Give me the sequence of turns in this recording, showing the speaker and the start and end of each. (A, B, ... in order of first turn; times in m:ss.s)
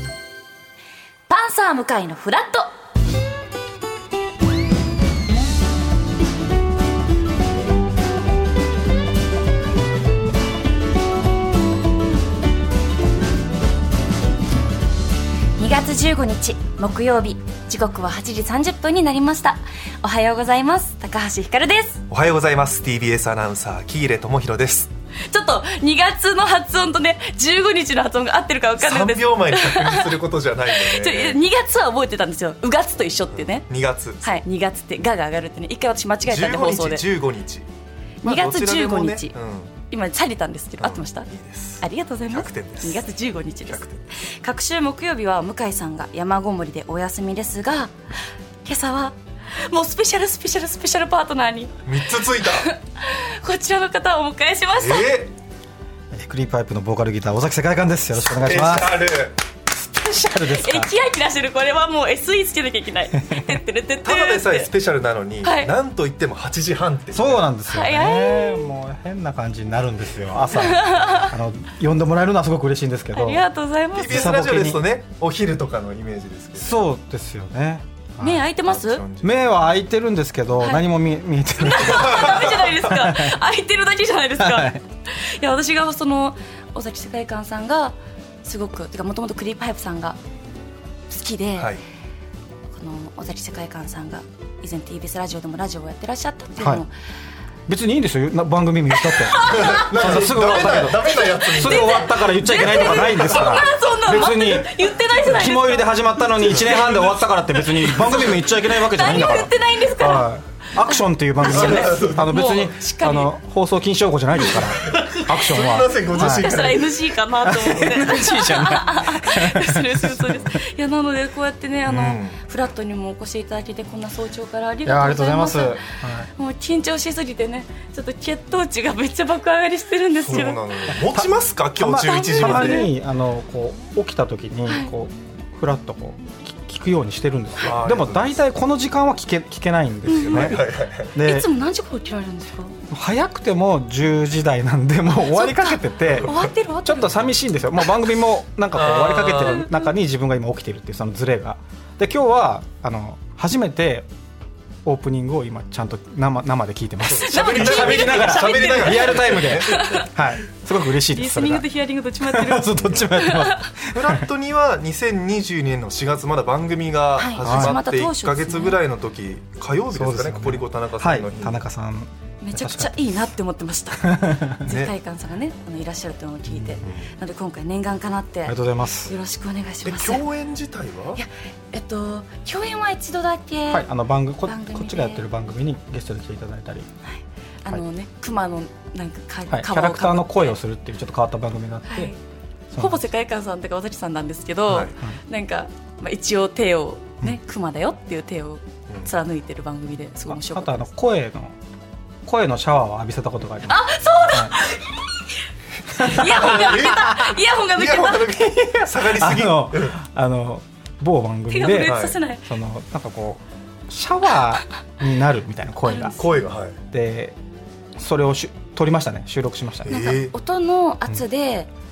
0:01.3-0:02.7 A
0:15.6-0:22.0 A
0:22.1-0:24.9 B
0:25.3-0:33.7 A
0:28.8-0:31.4 B
0:33.3-0:34.2 B
0:34.2-0:37.0 A
0:36.3-0:37.7 B
0:38.2-0:39.4 A
0:38.2-0:39.7 B
0:39.9-0:41.3 A
0:40.8-0:43.1 B
0:41.8-0:47.9 A
0:43.7-0:44.0 B
0:48.6-0:49.2 A
0:49.7-0:51.8 A
0:51.8-0:52.7 B
0:52.4-0:55.1 A
0:54.8-0:55.3 B
0:56.1-0:59.0 C
0:58.2-0:59.4 B
0:59.9-1:00.9 C
1:00.1-1:04.7 A
1:04.0-1:07.5 B
1:05.4-1:05.7 A
1:07.1-1:13.4 C
1:07.7-1:08.7 A
1:10.5-1:11.3 A
1:13.1-1:14.3 A
1:14.0-1:16.8 B
1:14.1-1:14.8 C
1:16.6-1:18.5 C
1:18.2-1:19.0 A
1:18.7-1:19.4 B
1:19.2-1:23.4 C
1:20.6-1:20.8 A
1:21.6-1:30.2 A
1:24.4-1:24.8 C
1:31.1-1:31.7 A
1:32.7-1:36.9 A
1:37.7-1:56.8 C
1:39.0-1:40.2 A
1:39.4-1:43.7 B
1:41.0-1:46.6 A
1:46.4-1:48.4 B
1:48.0-1:53.3 A
1:51.4-1:52.6 B
1:54.5-1:57.0 B
1:55.5-2:10.6 A
1:57.4-2:00.4 C
2:01.9-2:02.4 B
2:04.9-2:06.3 C
2:10.2-2:12.9 B
2:11.0-2:20.6 C
2:12.0-2:12.9 A
2:17.6-2:18.4 B
2:20.1-2:21.1 B
2:20.1-2:20.6 A
2:21.1-2:21.5 C
2:21.2-2:22.8 A
2:22.9-2:34.1 C
2:25.3-2:27.2 A
2:26.1-2:26.4 B
2:28.7-2:29.7 B
2:34.8-2:41.7 C
2:37.0-2:40.0 B
2:37.2-2:40.1 A
2:41.1-2:43.7 A
2:42.2-2:44.3 C
2:42.8-2:43.1 B
2:43.9-2:51.6 B
2:47.2-2:48.8 A
2:47.4-2:47.8 C
2:49.9-2:53.2 C
2:52.4-3:00.3 A
2:54.0-2:54.6 C
2:54.6-2:54.9 B
2:56.5-2:56.8 C
2:58.5-2:59.1 C
2:59.8-3:01.2 B
3:01.2-3:03.9 A
3:03.7-3:06.9 C
3:04.4-3:05.2 A
3:07.1-3:10.6 A
3:09.5-3:12.1 C
3:11.9-3:12.2 A
3:12.7-3:13.1 C
3:12.8-3:20.9 A
3:14.7-3:14.9 B
3:20.3-3:21.6 C
3:22.3-3:24.6 C
3:23.7-3:25.1 A
3:26.0-3:28.4 A
3:26.0-3:26.9 C
3:26.2-3:30.0 B
3:28.4-3:36.2 C
3:31.5-3:32.5 A
3:31.8-3:32.2 B
3:35.8-3:36.4 A
3:36.2-3:36.8 B
3:36.9-3:37.4 C
3:38.0-3:40.0 C
3:39.8-3:40.3 B
3:39.9-3:41.7 A